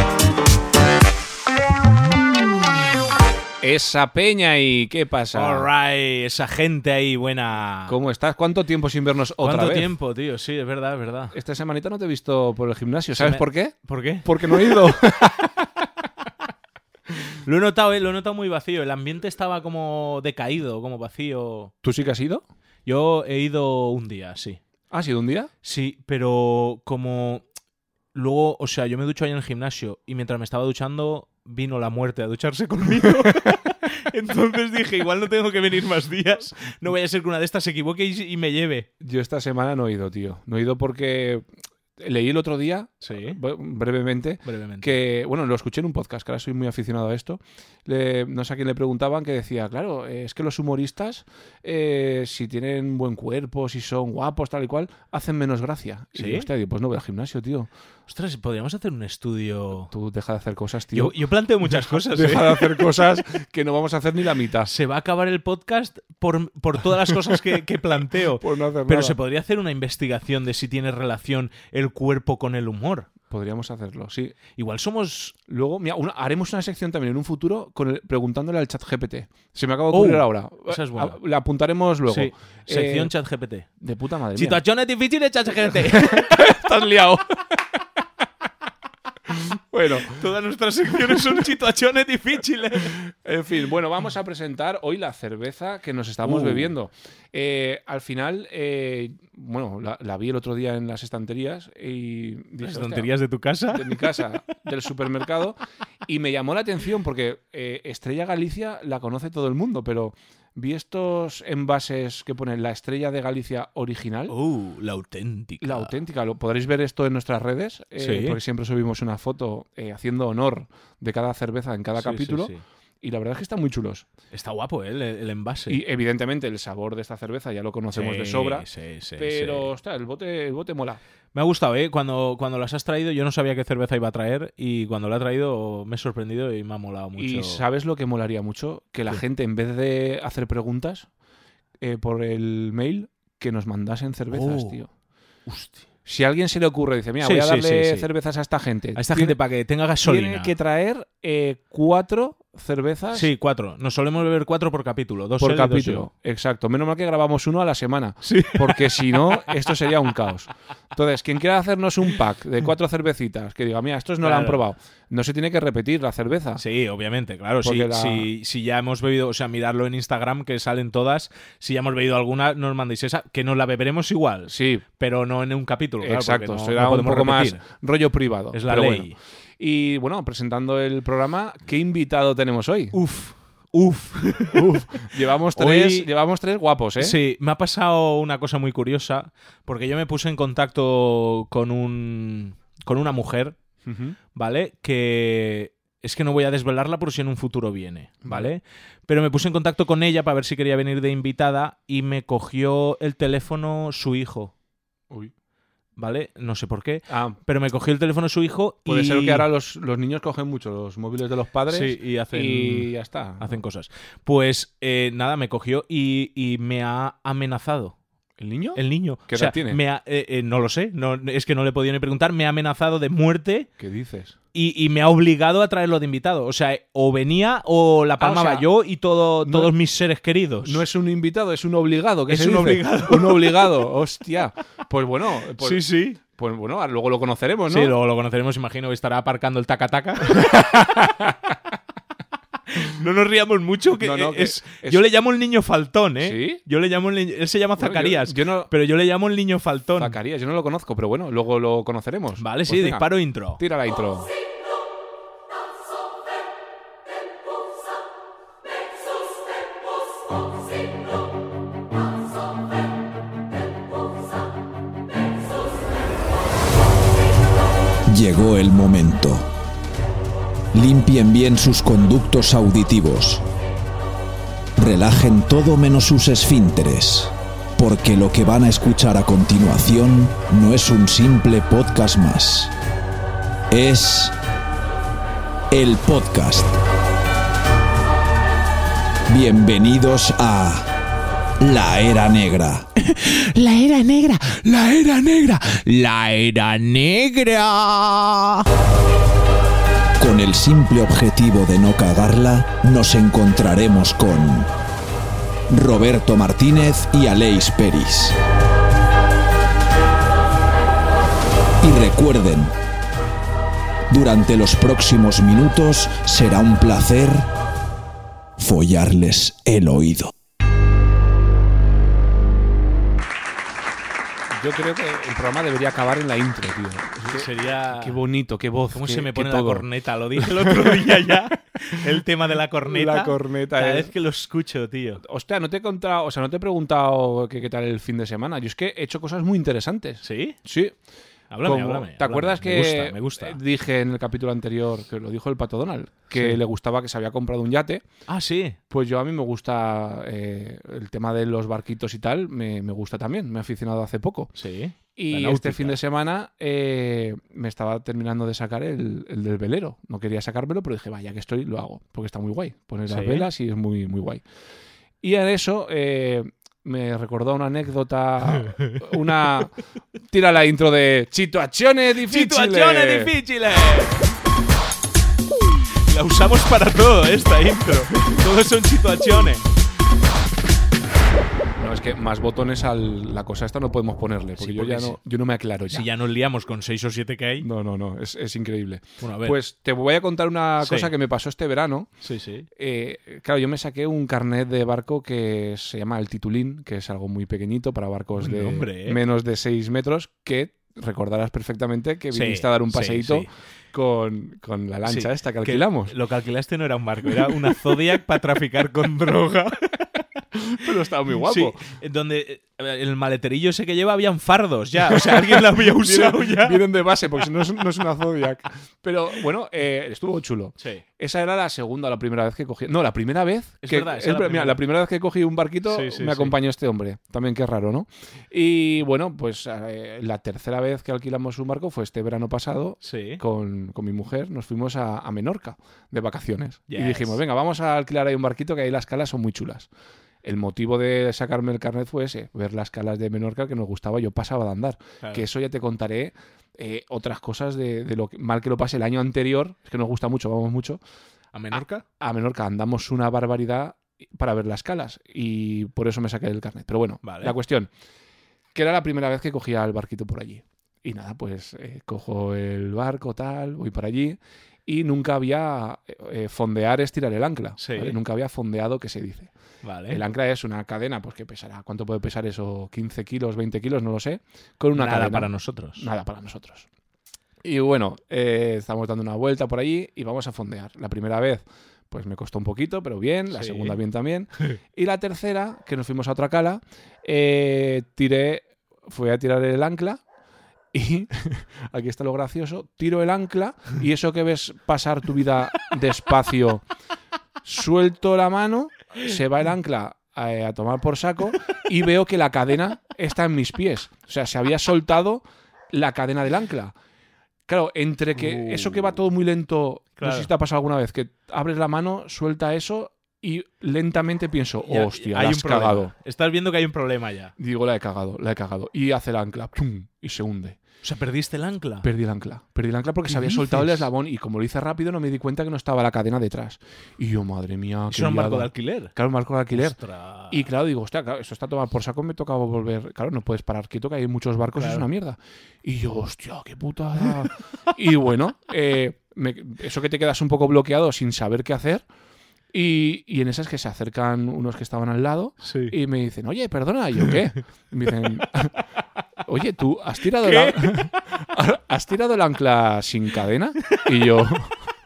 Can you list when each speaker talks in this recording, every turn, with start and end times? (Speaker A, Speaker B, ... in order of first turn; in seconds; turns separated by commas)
Speaker A: 3.6-5.7, Speaker B: 5.3-8.0, Speaker A: 7.9-9.9, Speaker B: 9.4-11.3, Speaker A: 11.3-15.7, Speaker B: 13.2-14.8, Speaker B: 17.3-21.7, Speaker A: 21.8-22.4, Speaker B: 22.9-24.6, Speaker A: 24.9-25.5, Speaker B: 25.6-27.4, Speaker B: 28.1-38.9, Speaker A: 39.0-41.5, Speaker A: 42.0-57.7, Speaker B: 43.0-43.4, Speaker B: 44.5-45.0, Speaker B: 56.2-56.5, Speaker B: 58.1-59.9, Speaker A: 59.9-64.7, Speaker B: 60.9-62.9, Speaker B: 64.7-73.1, Speaker A: 68.4-69.2, Speaker A: 73.3-74.4, Speaker B: 74.5-75.4, Speaker A: 75.5-83.1, Speaker B: 79.9-81.2, Speaker B: 82.1-83.7, Speaker A: 83.8-84.6, Speaker B: 84.3-86.6, Speaker A: 85.7-87.4, Speaker A: 89.3-90.2, Speaker B: 90.0-93.0, Speaker A: 91.0-91.5, Speaker A: 92.8-103.1, Speaker B: 96.2-96.7, Speaker B: 102.6-104.2, Speaker A: 103.7-114.3, Speaker B: 114.3-116.0, Speaker A: 115.6-124.1, Speaker B: 118.0-118.4, Speaker B: 122.0-122.6, Speaker B: 124.3-125.8, Speaker A: 125.7-128.7, Speaker B: 127.9-129.7, Speaker A: 129.2-131.0, Speaker B: 131.3-137.6, Speaker A: 137.2-141.1, Speaker A: 141.8-144.9, Speaker B: 144.3-144.8, Speaker B: 145.5-145.8, Speaker A: 146.1-149.4, Speaker B: 147.2-148.1, Speaker B: 148.9-150.5, Speaker A: 150.0-153.3, Speaker B: 153.1-156.1, Speaker A: 155.4-166.6, Speaker B: 158.2-159.6, Speaker B: 164.2-164.6, Speaker B: 166.6-177.7, Speaker A: 167.6-168.3, Speaker A: 174.5-174.8, Speaker A: 176.0-183.0, Speaker B: 178.5-179.2, Speaker B: 182.9-186.1, Speaker A: 184.5-187.2, Speaker B: 187.0-193.6, Speaker A: 193.8-194.2, Speaker B: 194.3-204.5, Speaker A: 198.2-198.5, Speaker B: 206.0-209.5, Speaker A: 207.1-207.4, Speaker A: 208.9-213.6, Speaker B: 211.7-218.0, Speaker A: 218.4-219.8, Speaker B: 218.8-223.7, Speaker A: 223.8-224.3, Speaker B: 224.5-230.8, Speaker A: 228.2-228.7, Speaker A: 229.4-229.7, Speaker A: 230.7-237.9, Speaker B: 232.3-233.9, Speaker B: 235.6-236.2, Speaker B: 237.7-241.0, Speaker A: 240.3-241.3, Speaker B: 242.7-250.2, Speaker A: 244.0-245.1, Speaker A: 246.2-246.6, Speaker A: 247.8-248.7, Speaker A: 250.0-254.3, Speaker B: 252.4-253.6, Speaker C: 268.1-269.5, Speaker C: 270.7-273.4, Speaker C: 274.8-282.7, Speaker C: 283.7-284.4, Speaker C: 285.7-286.8, Speaker C: 289.3-290.9, Speaker C: 291.6-292.9, Speaker B: 293.1-298.6, Speaker C: 300.2-304.7, Speaker C: 305.7-308.4, Speaker C: 311.8-312.7, Speaker C: 314.1-317.5, Speaker C: 318.6-320.3, Speaker A: 324.5-331.4, Speaker B: 327.3-328.2, Speaker B: 328.9-335.2, Speaker A: 332.8-334.1, Speaker A: 335.2-341.0, Speaker B: 340.2-340.6, Speaker B: 341.5-343.6, Speaker A: 341.6-348.1, Speaker B: 348.3-348.8, Speaker A: 348.9-354.5, Speaker B: 354.6-356.0, Speaker A: 355.2-364.4, Speaker B: 363.1-363.5, Speaker A: 365.2-369.8, Speaker B: 368.7-369.1, Speaker A: 370.3-373.3, Speaker B: 372.2-374.3, Speaker B: 376.1-379.7, Speaker A: 381.8-386.1, Speaker B: 384.6-385.2, Speaker B: 385.9-387.7, Speaker A: 387.6-392.1, Speaker B: 389.2-389.6, Speaker B: 390.8-391.1, Speaker B: 392.2-392.7, Speaker A: 392.8-406.1, Speaker B: 398.4-399.2, Speaker B: 402.3-403.5, Speaker B: 405.1-410.2, Speaker A: 407.3-407.8, Speaker A: 410.6-411.8, Speaker B: 411.4-416.9, Speaker A: 415.1-439.9, Speaker B: 423.8-424.8, Speaker B: 425.9-426.6, Speaker B: 433.0-433.4, Speaker B: 436.9-437.4, Speaker A: 440.4-451.0, Speaker B: 451.5-452.1, Speaker A: 452.2-457.9, Speaker B: 457.2-457.6, Speaker A: 458.7-469.5, Speaker B: 467.8-468.2, Speaker B: 469.8-470.2, Speaker A: 470.1-476.9, Speaker B: 474.9-476.1, Speaker A: 477.6-490.2, Speaker B: 483.5-484.0, Speaker A: 490.9-496.8, Speaker A: 497.6-506.9, Speaker A: 507.7-516.1, Speaker B: 508.4-509.1, Speaker B: 510.2-510.5, Speaker B: 514.9-517.5, Speaker A: 517.6-520.8, Speaker B: 521.0-522.1, Speaker A: 522.0-530.0, Speaker B: 523.3-524.1, Speaker B: 528.1-529.1, Speaker B: 529.7-530.7, Speaker A: 530.5-542.0, Speaker B: 534.8-535.0, Speaker A: 542.7-548.7, Speaker B: 545.6-546.0, Speaker A: 549.5-554.8, Speaker B: 550.4-551.1